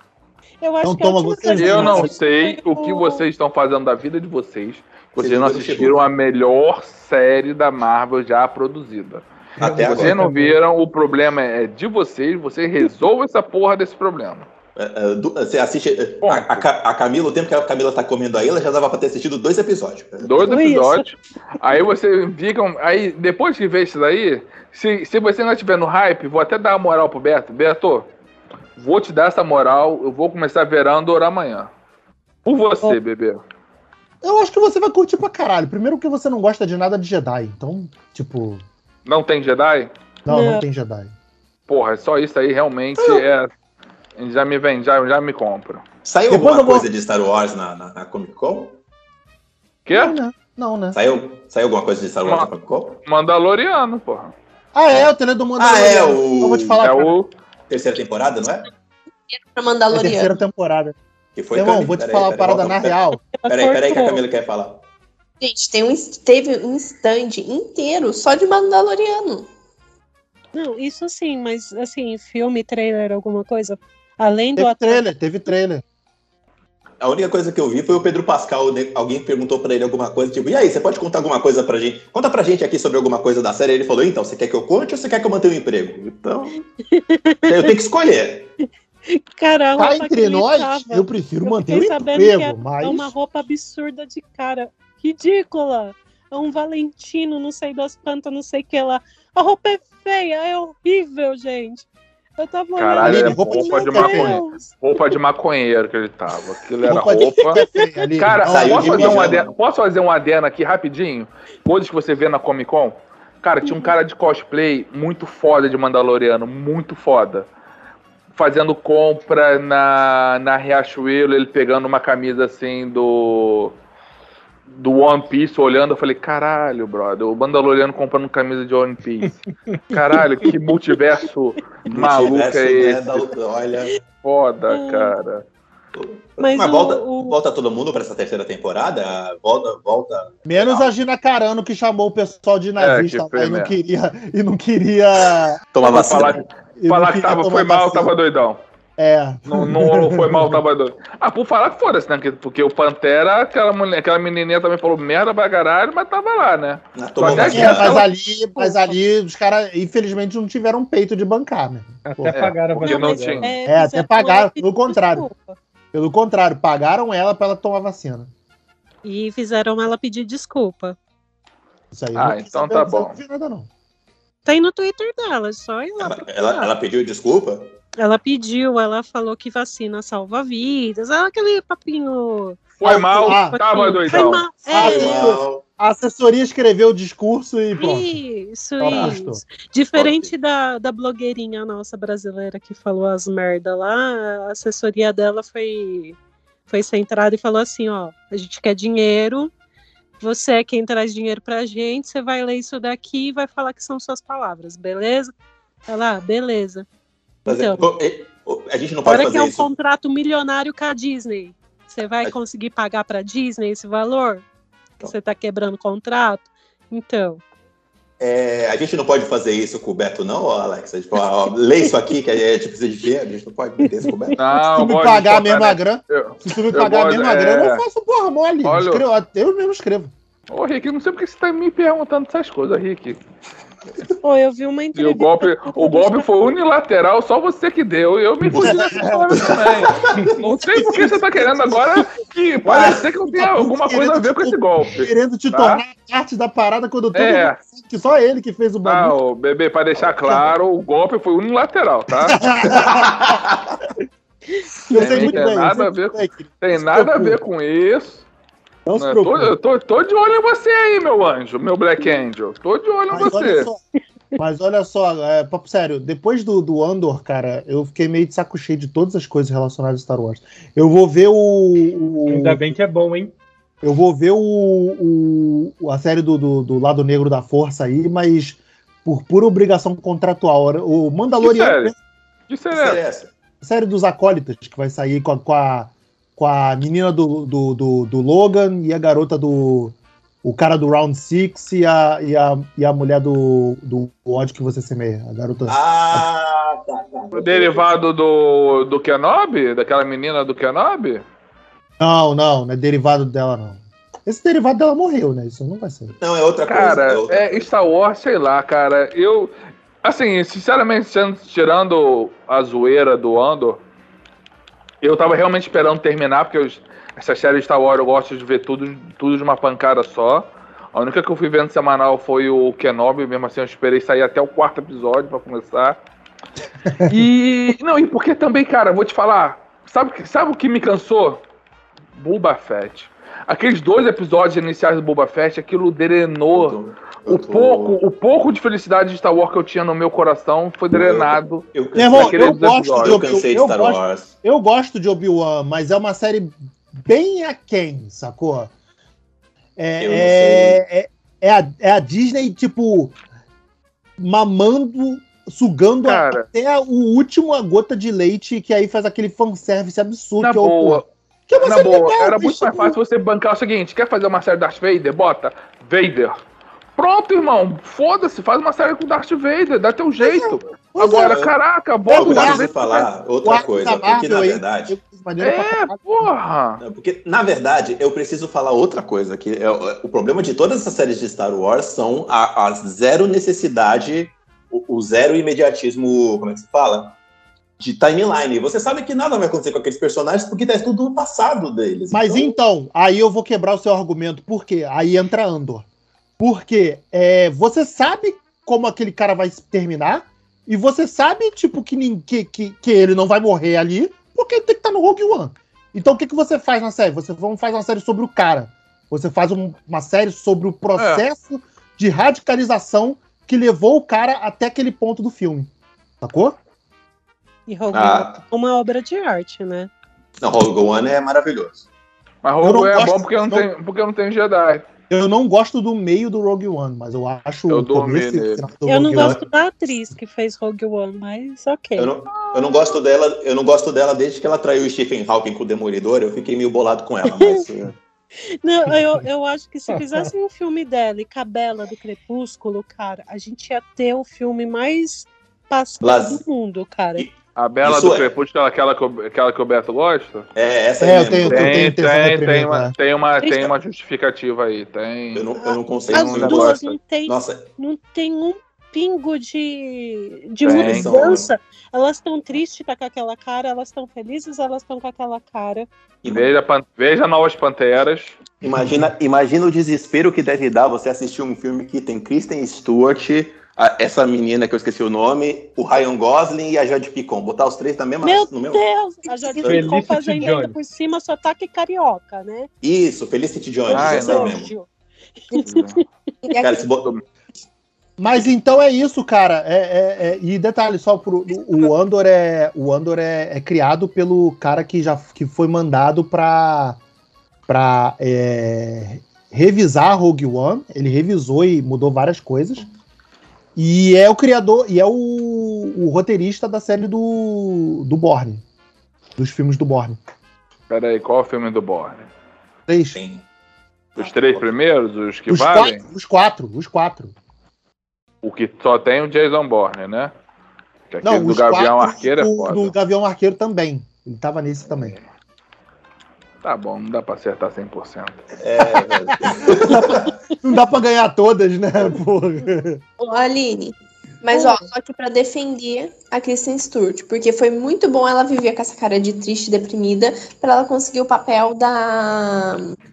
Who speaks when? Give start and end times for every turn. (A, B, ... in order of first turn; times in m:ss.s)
0:00.6-0:03.2 A
0:00.8-0:02.1 B
0:01.6-0:14.5 C
0:05.2-0:06.0 D
0:09.6-0:10.2 D
0:09.6-0:10.6 E
0:14.8-0:20.6 D
0:16.2-0:16.6 C
0:20.2-0:28.1 C
0:20.4-0:21.1 A
0:28.8-0:31.7 C
0:32.5-0:33.4 C
0:34.2-0:38.6 B
0:39.1-0:39.9 C
0:40.3-0:41.1 B
0:40.3-0:40.6 A
0:41.7-0:43.5 C
0:44.2-0:45.8 C
0:46.0-0:48.8 D
0:46.3-0:46.9 B
0:49.9-0:50.2 C
0:49.9-0:51.0 B
0:50.9-0:53.0 D
0:52.2-0:52.5 C
0:53.0-0:54.3 C
0:54.7-0:57.1 B
0:54.9-0:56.8 D
0:56.8-0:57.3 C
0:57.7-0:58.7 D
0:59.3-1:00.3 F
0:59.9-1:01.0 B
1:01.4-1:04.8 D
1:01.5-1:03.2 B
1:03.2-1:04.2 A
1:05.4-1:09.5 F
1:10.5-1:15.0 A
1:14.6-1:15.8 B
1:17.0-1:26.6 D
1:26.9-1:27.7 A
1:27.4-1:28.5 D
1:29.1-1:45.0 A
1:29.8-1:33.1 B
1:42.8-1:57.5 C
1:43.0-1:44.4 B
1:46.9-1:49.4 B
1:46.9-1:48.1 A
1:48.4-1:49.5 D
1:53.6-1:53.9 A
1:58.4-2:03.8 C
2:04.7-2:13.3 C
2:11.9-2:14.0 D
2:14.2-2:15.4 C
2:14.7-2:15.2 A
2:15.9-2:20.9 D
2:16.4-2:17.4 A
2:20.5-2:25.6 B
2:22.8-2:23.8 C
2:25.7-2:26.5 D
2:25.8-2:28.6 C
2:26.8-2:28.1 B
2:29.0-2:30.6 B
2:29.5-2:38.0 C
2:37.0-2:38.0 D
2:37.4-2:42.5 B
2:38.6-2:38.9 A
2:42.0-2:43.6 E
2:42.3-2:43.5 C
2:42.8-2:45.6 A
2:43.7-2:45.3 B
2:45.9-2:48.3 B
2:49.0-2:51.0 A
2:51.9-2:53.7 B
2:52.2-2:53.2 C
2:54.4-2:56.7 A
2:56.0-2:57.8 D
2:58.0-3:05.4 A
3:02.8-3:04.5 C
3:02.8-3:08.2 B
3:04.7-3:05.6 D
3:07.8-3:19.5 A
3:08.8-3:09.4 B
3:08.8-3:09.2 D
3:09.9-3:10.3 D
3:20.2-3:25.3 A
3:25.9-3:26.9 A
3:27.4-3:27.9 A
3:27.5-3:29.7 D
3:29.1-3:34.4 A
3:35.0-3:37.4 A
3:38.2-3:44.4 D
3:43.8-3:44.5 A
3:44.4-3:47.8 C
3:44.6-3:50.1 B
3:48.6-3:49.0 C
3:50.5-3:53.2 C
3:54.2-3:56.3 A
3:55.0-4:05.8 C
3:58.5-3:59.6 B
3:58.5-4:01.0 D
4:00.8-4:01.8 B
4:02.6-4:03.0 D
4:02.7-4:09.2 B
4:07.1-4:07.6 C
4:08.8-4:12.4 C
4:12.3-4:13.4 B
4:12.6-4:13.8 D
4:14.9-4:17.4 B
4:14.9-4:15.3 A
4:14.9-4:18.3 C
4:18.9-4:19.6 B
4:19.0-4:23.7 C
4:23.1-4:23.8 B
4:24.4-4:32.7 B
4:32.3-4:33.3 E
4:33.8-4:42.0 B
4:41.4-4:41.9 C
4:42.5-4:43.0 C
4:42.7-4:43.3 D
4:43.6-4:56.3 B
4:55.7-4:57.9 D
4:57.3-5:01.2 C
5:02.0-5:06.1 B
5:06.2-5:07.7 D
5:06.7-5:13.8 C
5:15.0-5:26.0 C
5:27.0-5:31.4 C
5:32.2-5:43.3 C
5:36.5-5:38.0 D
5:40.9-5:44.3 D
5:42.0-5:48.7 B
5:49.8-5:53.2 B
5:50.0-5:50.8 D
5:54.2-6:03.0 B
5:56.0-5:56.5 C
6:00.4-6:01.1 C
6:01.6-6:06.4 C
6:07.0-6:13.1 C
6:10.2-6:11.4 B
6:11.2-6:11.5 D
6:12.1-6:12.7 B
6:12.1-6:15.0 D
6:13.4-6:16.3 B
6:15.4-6:16.8 C
6:16.8-6:27.2 D
6:27.8-6:32.6 D
6:32.1-6:35.9 B
6:36.4-6:55.7 B
6:51.0-6:51.2 C
6:56.2-6:56.6 B
6:57.7-6:59.9 A
6:57.9-6:58.4 D
7:00.4-7:01.9 D
7:02.4-7:04.9 C
7:02.6-7:03.7 B
7:05.1-7:09.4 B
7:07.7-7:08.7 C
7:08.8-7:12.1 A
7:12.0-7:18.0 D
7:17.2-7:17.7 A
7:18.6-7:27.3 A
7:19.9-7:20.3 E
7:26.0-7:26.4 D
7:27.2-7:28.3 D
7:27.6-7:30.5 C
7:30.6-7:31.9 D
7:31.0-7:32.9 B
7:31.5-7:35.5 C
7:33.4-7:33.7 A
7:35.3-7:37.7 D
7:35.6-7:45.9 A
7:36.1-7:37.0 C
7:40.6-7:41.2 C
7:40.6-7:41.5 D
7:46.2-7:46.5 D
7:46.3-7:48.4 C
7:48.6-7:58.8 D
7:58.2-8:02.7 A
7:59.6-7:59.9 D
7:59.6-8:00.8 E
8:02.8-8:04.7 D
8:03.9-8:04.6 C
8:03.9-8:04.9 A
8:05.5-8:06.6 A
8:05.6-8:06.0 C
8:06.4-8:06.7 F
8:06.6-8:07.1 D
8:08.2-8:17.0 B
8:17.7-8:22.9 B
8:23.8-8:28.6 B
8:29.4-8:30.2 B
8:30.9-8:32.3 C
8:32.9-8:33.2 B
8:33.2-8:33.4 D
8:34.2-8:36.0 C
8:34.2-8:34.6 D
8:35.5-8:37.3 B
8:38.4-8:40.3 C
8:41.1-8:42.9 C
8:41.2-8:45.2 B
8:44.9-8:45.2 C
8:46.6-8:48.4 C
8:48.6-8:50.3 D
8:49.3-8:53.0 B
8:53.2-9:03.0 F
8:54.5-8:54.8 A